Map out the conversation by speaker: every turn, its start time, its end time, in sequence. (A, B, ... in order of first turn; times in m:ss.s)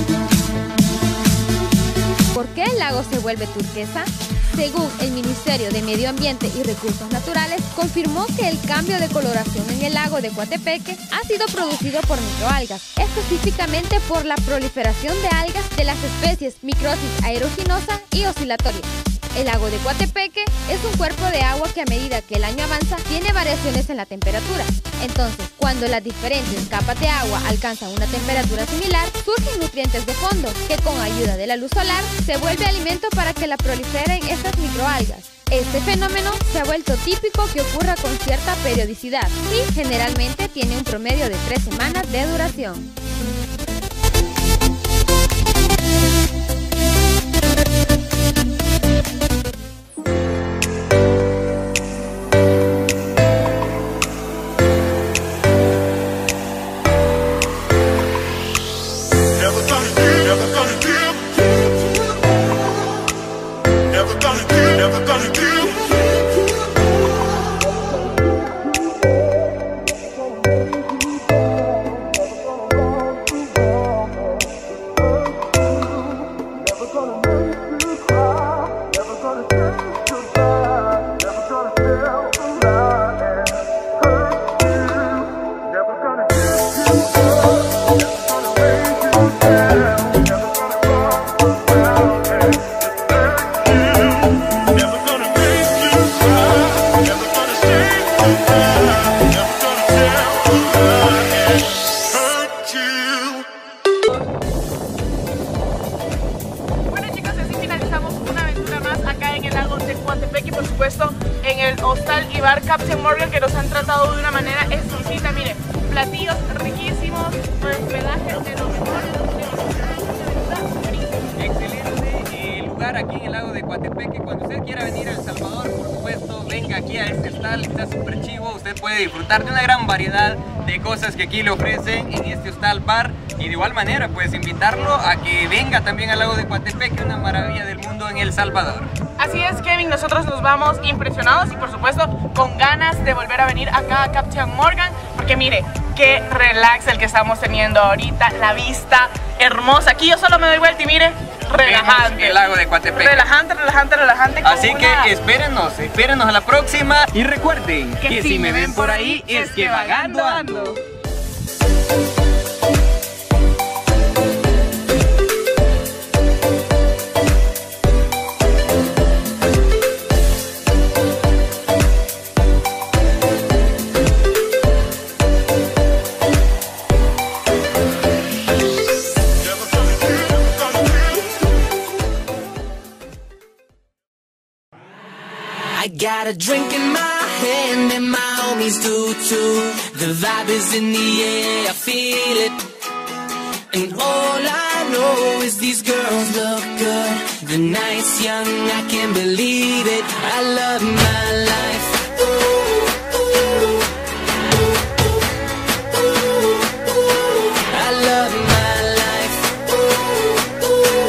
0:02.3-0:42.9 A
1:46.9-2:01.2 B
2:01.4-2:18.9 C
2:19.2-2:32.4 B
2:31.6-2:33.3 C
2:33.0-2:35.1 B
2:34.4-2:40.7 C
2:38.0-2:40.7 B
3:05.8-3:12.6 D
3:13.7-3:22.0 D
3:27.7-3:29.5 D